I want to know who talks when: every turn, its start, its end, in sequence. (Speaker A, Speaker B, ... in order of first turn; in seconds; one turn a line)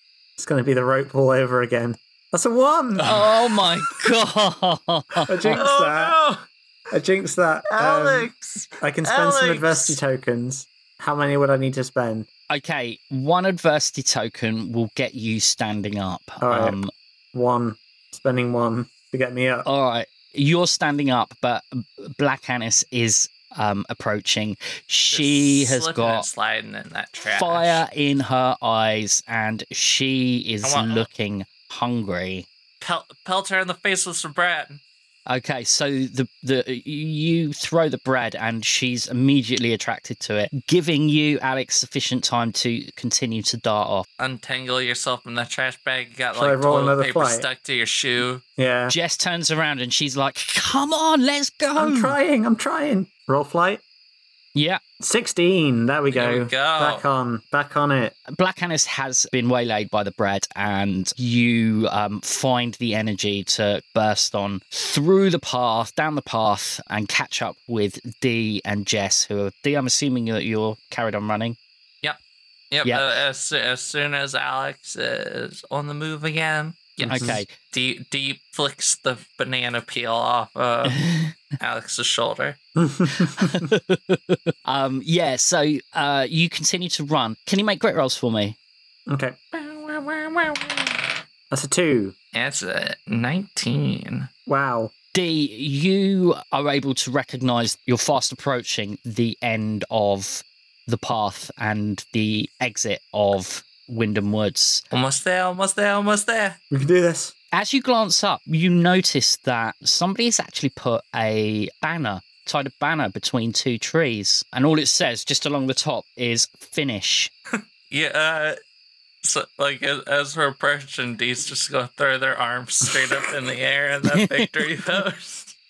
Speaker A: 0.4-3.2
Speaker B: 3.0-5.6
Speaker A: 5.3-6.2
Speaker C: 5.5-6.5
Speaker A: 6.9-8.3
Speaker C: 7.7-10.0
Speaker A: 8.8-12.3
Speaker B: 12.5-16.9
Speaker A: 16.4-16.8
Speaker A: 17.3-19.7
Speaker B: 19.6-26.3
Speaker C: 25.1-27.8
Speaker B: 27.3-32.5
Speaker C: 30.6-31.1
Speaker C: 32.8-34.8
Speaker B: 35.3-44.1
Speaker C: 44.2-48.4
Speaker A: 46.4-47.5
Speaker A: 48.6-49.0
Speaker B: 48.9-52.2
Speaker A: 51.8-53.8
Speaker B: 54.5-54.8
Speaker A: 55.0-58.2
Speaker C: 56.1-57.0
Speaker B: 58.3-71.6
Speaker C: 72.7-81.0
Speaker A: 77.0-77.4
Speaker B: 77.1-77.5
Speaker B: 80.9-81.3
Speaker C: 81.6-82.6
Speaker A: 82.8-83.7
Speaker B: 83.3-88.6
Speaker A: 89.1-89.4
Speaker C: 89.5-91.0
Speaker A: 91.5-92.1
Speaker C: 92.3-94.3
Speaker A: 94.5-94.9
Speaker B: 95.1-104.8
Speaker C: 104.9-106.6
Speaker A: 106.7-107.3
Speaker B: 107.5-117.3
Speaker C: 117.9-118.6
Speaker C: 119.2-125.5
Speaker B: 124.1-124.5